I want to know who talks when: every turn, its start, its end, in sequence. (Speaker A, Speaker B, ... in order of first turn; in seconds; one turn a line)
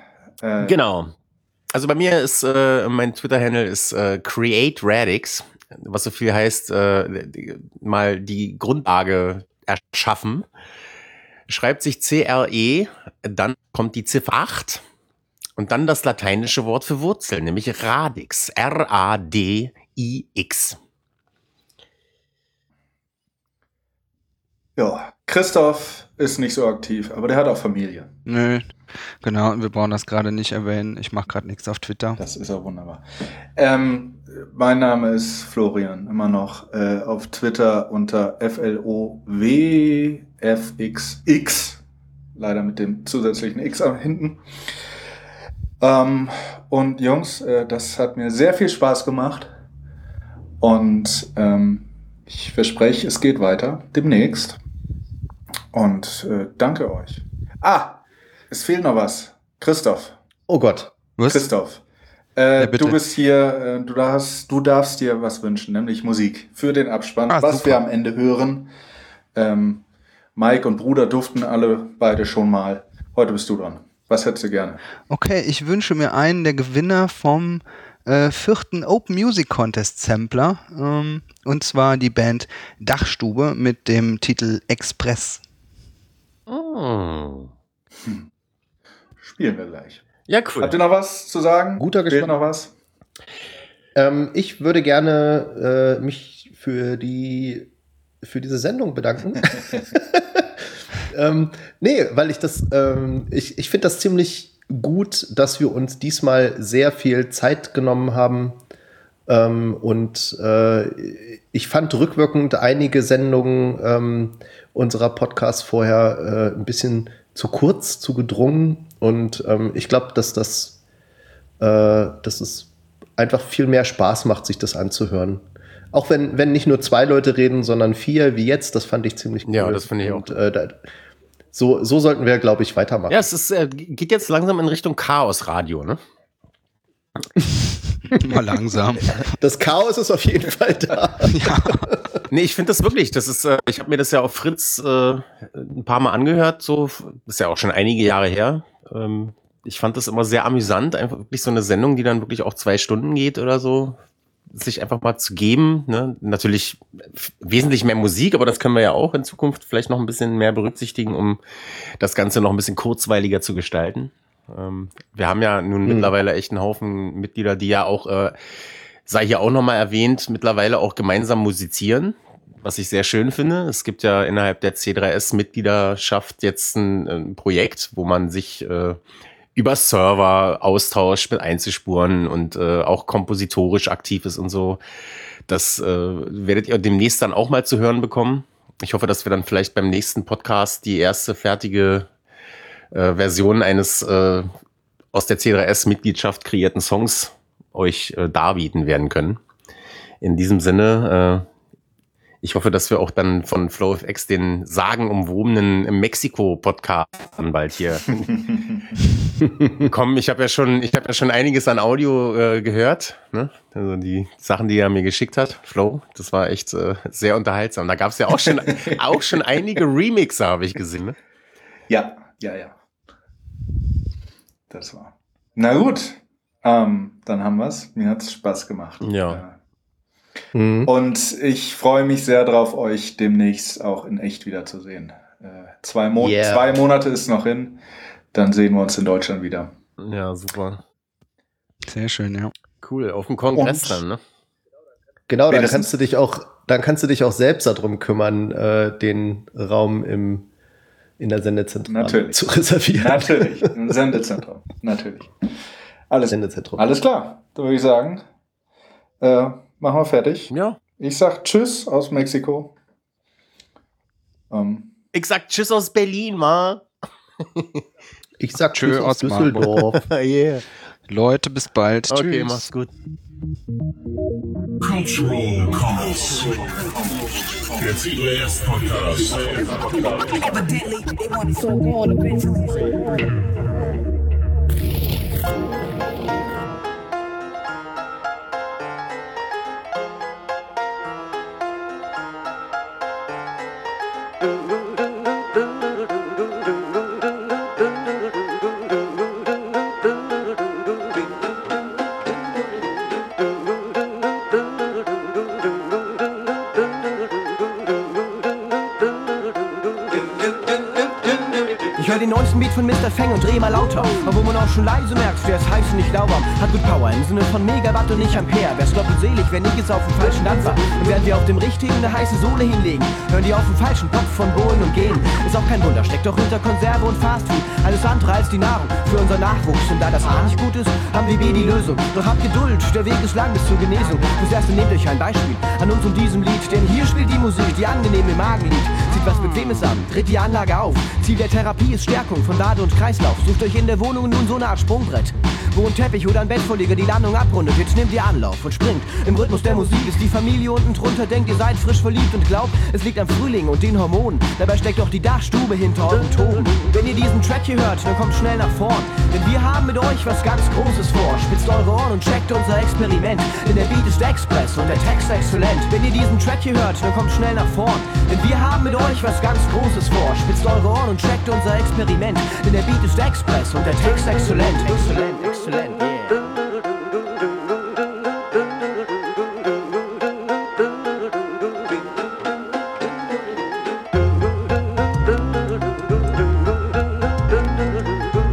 Speaker A: 0.4-0.8
Speaker B: 0.6-1.1
Speaker B: 1.7-10.5
Speaker B: 11.5-14.8
Speaker B: 15.6-20.8
Speaker A: 24.8-28.1
Speaker C: 28.3-28.6
Speaker C: 29.2-32.2
Speaker A: 32.2-33.0
Speaker A: 33.5-41.8
Speaker A: 42.3-44.4
Speaker A: 45.8-49.5
Speaker A: 50.6-54.6
Speaker A: 55.7-60.1
Speaker D: 60.5-60.9
Speaker C: 61.2-61.5
Speaker A: 61.3-61.8
Speaker A: 62.4-68.7
Speaker C: 62.6-63.0
Speaker C: 67.3-67.8
Speaker A: 69.3-69.8
Speaker A: 70.3-74.8
Speaker C: 75.1-85.4
Speaker B: 86.5-87.5
Speaker A: 89.2-90.0
Speaker B: 90.3-90.7
Speaker A: 90.6-92.7
Speaker D: 91.8-92.3
Speaker D: 93.9-97.7
Speaker D: 98.2-100.5
Speaker D: 101.1-108.6
Speaker D: 109.3-120.8
Speaker D: 121.6-130.8
Speaker B: 129.4-130.4
Speaker D: 131.5-133.2
Speaker B: 133.1-136.0
Speaker C: 138.1-139.2
Speaker D: 139.4-141.9
Speaker C: 141.2-141.8
Speaker B: 142.3-154.0
Speaker B: 154.5-161.4
Speaker B: 162.0-168.3
Speaker D: 165.8-166.1
Speaker B: 169.1-179.0
Speaker B: 179.5-184.8
Speaker B: 185.5-192.1
Speaker B: 192.9-194.5
Speaker B: 195.1-199.4
Speaker B: 200.2-201.4
Speaker B: 202.4-208.4
Speaker A: 208.2-209.0
Speaker B: 209.8-221.2
Speaker A: 218.4-219.4
Speaker A: 221.9-222.8
Speaker A: 224.7-229.6
Speaker B: 229.0-229.4
Speaker D: 230.5-230.9
Speaker A: 230.8-237.8
Speaker D: 236.2-236.7
Speaker A: 238.3-239.7
Speaker B: 240.0-240.8
Speaker C: 241.8-242.5
Speaker B: 242.8-244.2
Speaker A: 243.5-244.0
Speaker D: 245.3-250.5
Speaker A: 245.5-245.9
Speaker D: 251.2-253.7
Speaker A: 251.9-252.4
Speaker A: 253.0-255.3
Speaker A: 256.1-258.2
Speaker D: 256.3-256.8
Speaker A: 259.2-262.7
Speaker B: 260.5-260.8
Speaker A: 264.5-264.9
Speaker B: 265.1-266.9
Speaker B: 267.4-267.8
Speaker D: 268.4-270.0
Speaker C: 268.7-269.7
Speaker B: 269.9-270.6
Speaker C: 271.1-272.6
Speaker B: 272.1-272.9
Speaker E: 274.8-276.9
Speaker E: 277.7-280.0
Speaker F: 280.4-283.3
Speaker G: 311.9-376.5